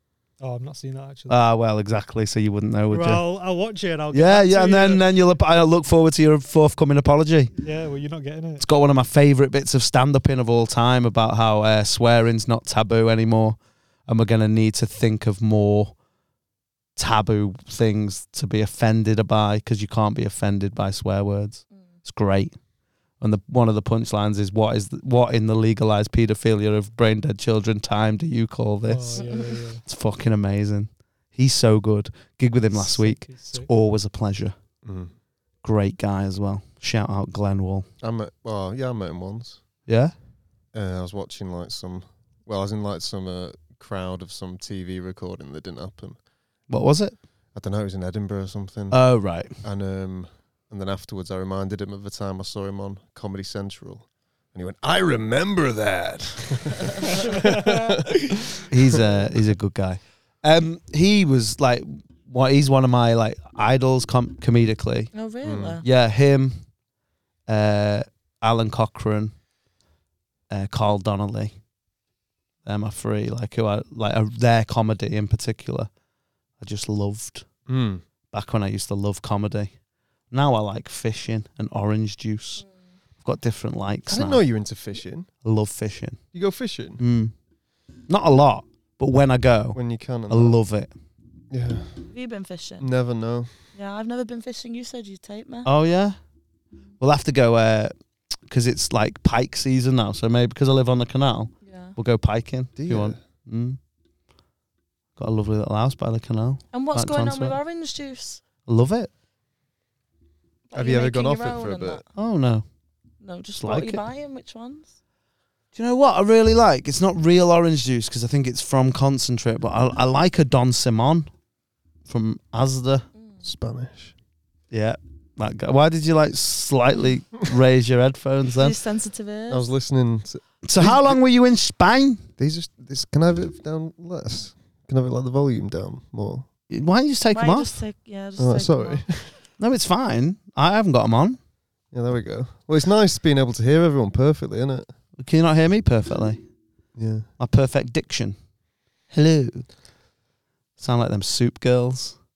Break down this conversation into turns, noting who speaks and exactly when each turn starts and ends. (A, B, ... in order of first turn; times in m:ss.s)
0:00.4-0:01.4 A
0:01.3-0:03.2 B
0:02.9-0:05.1 A
0:04.1-0:07.5 B
0:07.6-0:08.6 A
0:08.6-0:15.9 B
0:17.0-0:22.5 B
0:23.2-0:34.5 B
0:28.9-0:29.8 A
0:32.7-0:33.7 A
0:34.8-0:35.1 C
0:35.6-0:37.9 B
0:38.0-0:39.6 C
0:39.9-0:40.1 B
0:40.7-0:46.2 C
0:46.7-0:47.2 B
0:47.5-0:58.8 C
0:48.9-0:49.5 B
0:58.7-1:05.1 B
1:05.1-1:05.8 D
1:05.4-1:05.8 C
1:05.8-1:06.6 B
1:07.5-1:09.3 B
1:10.5-1:11.5 B
1:12.6-1:15.9 B
1:16.6-1:17.5 B
1:17.7-1:18.0 C
1:18.3-1:19.7 B
1:20.3-1:22.6 B
1:23.2-1:24.4 B
1:24.1-1:25.3 C
1:25.4-1:26.2 B
1:26.3-1:27.0 C
1:27.0-1:27.3 B
1:28.1-1:30.9 B
1:29.7-1:30.6 C
1:31.5-1:32.0 C
1:32.1-1:32.9 D
1:32.8-1:33.5 C
1:33.7-1:35.7 D
1:35.6-1:36.2 B
1:37.0-1:37.9 B
1:38.5-1:43.8 B
1:41.6-1:41.9 D
1:42.8-1:43.2 C
1:45.2-1:47.6 B
1:46.7-1:48.4 D
1:48.7-1:49.1 B
1:50.7-1:52.0 D
1:50.7-1:52.0 C
1:52.2-1:52.6 B
1:53.2-1:54.9 D
1:53.6-1:54.0 B
1:55.7-2:01.3 B
2:02.1-2:03.0 B
2:03.4-2:04.1 C
2:04.7-2:08.8 B
2:08.6-2:09.6 D
2:09.5-2:11.2 C
2:10.6-2:12.2 B
2:12.4-2:16.5 C
2:16.7-2:17.8 B
2:17.3-2:19.0 D
2:18.4-2:19.4 C
2:19.6-2:21.4 B
2:21.9-2:24.9 C
2:25.2-2:26.4 B
2:27.0-2:27.3 C
2:27.4-2:28.4 B
2:29.1-2:29.7 B
2:30.8-2:32.2 B